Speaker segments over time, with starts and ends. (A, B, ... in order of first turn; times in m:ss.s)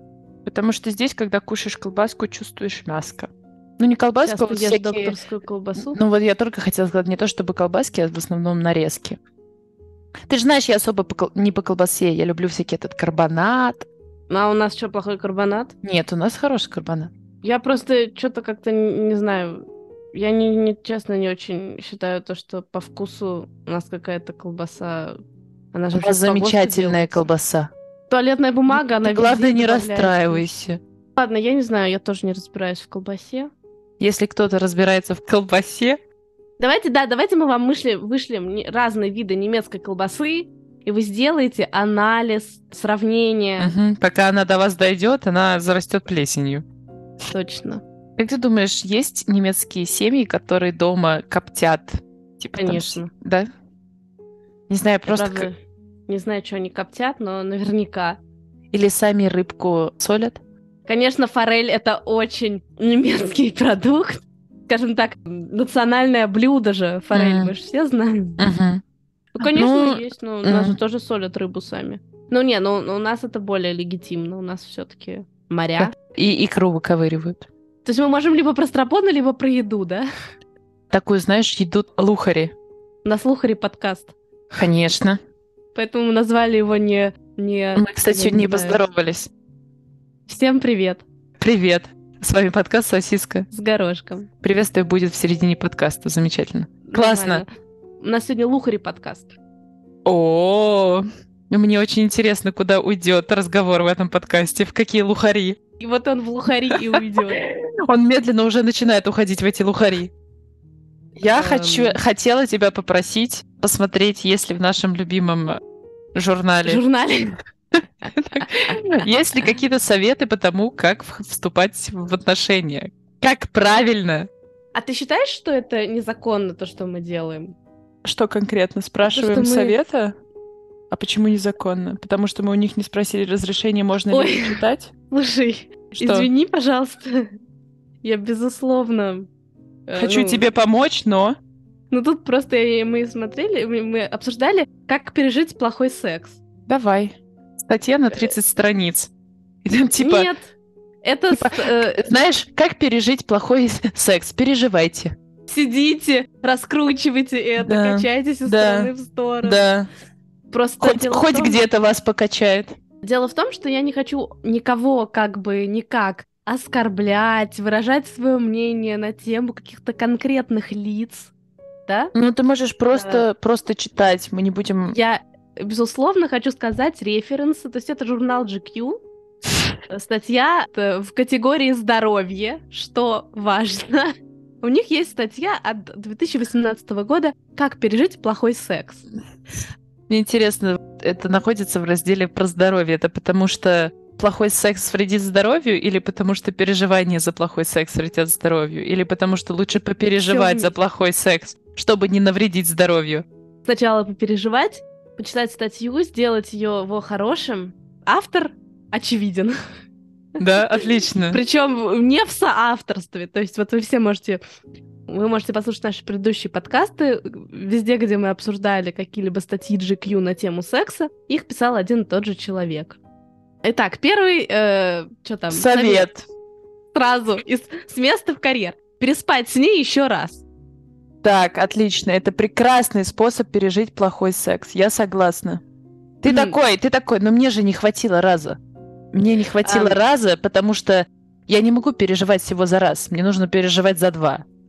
0:00.4-0:05.2 A
0:04.2-0:06.0 B
0:05.8-0:09.2 A
0:10.3-0:13.9 A
0:14.3-0:15.7 B
0:15.8-0:17.1 A
0:17.4-0:25.2 B
0:25.7-0:27.2 B
0:26.0-0:27.7 A
0:28.1-0:30.5 B
0:28.7-0:30.8 A
0:31.2-0:33.5 B
0:34.0-0:36.0 A
0:36.6-0:43.8 B
0:43.6-0:46.6 A
0:47.3-0:47.8 B
0:48.2-0:53.5 A
0:52.6-0:53.1 B
0:54.7-0:55.5 A
0:55.1-0:55.6 B
0:56.1-0:58.2 B
0:58.7-1:00.4 A
1:00.9-1:08.4 B
1:07.1-1:07.5 A
1:08.4-1:08.8 A
1:09.4-1:15.9 B
1:09.4-1:10.8 A
1:15.8-1:17.5 A
1:17.8-1:20.1 B
1:20.9-1:22.5 A
1:23.0-1:24.1 B
1:24.6-1:25.2 A
1:25.8-1:28.8 B
1:27.8-1:29.3 A
1:30.3-1:31.0 B
1:31.4-1:33.5 A
1:33.5-1:34.3 B
1:34.4-1:37.4 A
1:36.9-1:37.5 B
1:38.0-1:39.3 B
1:40.0-1:45.6 A
1:45.8-1:47.4 B
1:46.7-1:50.1 A
1:51.2-1:55.6 A
1:51.3-1:52.0 B
1:56.2-1:56.8 A
1:56.6-1:57.4 B
1:58.1-2:04.3 A
2:04.8-2:07.6 B
2:08.0-2:10.1 A
2:09.1-2:09.8 B
2:10.9-2:14.9 A
2:14.1-2:17.3 B
2:16.0-2:16.3 A
2:18.0-2:19.3 B
2:19.9-2:20.5 B
2:20.0-2:21.4 A
2:21.9-2:26.4 B
2:26.7-2:29.1 A
2:29.6-2:30.3 A
2:30.0-2:32.0 B
2:31.3-2:35.1 A
2:35.5-2:39.6 B
2:37.6-2:38.9 A
2:39.4-2:39.9 A
2:40.5-2:41.6 B
2:40.8-2:42.7 A
2:43.0-2:51.3 B
2:51.9-2:52.1 B
2:52.1-2:55.0 A
2:52.9-2:53.2 B
2:54.9-2:59.0 B
2:59.9-3:04.1 B
3:04.6-3:09.0 B
3:10.1-3:23.2 A
3:20.2-3:20.7 B
3:23.6-3:29.5 B
3:30.4-3:31.4 A
3:31.3-3:34.4 B
3:35.1-3:43.0 B
3:43.6-3:46.1 B
3:45.5-3:46.3 A
3:46.9-3:50.4 B
3:51.2-3:55.6 A
3:56.2-3:58.6 A
3:56.3-3:56.6 B
3:59.1-4:04.4 A
3:59.6-4:00.0 B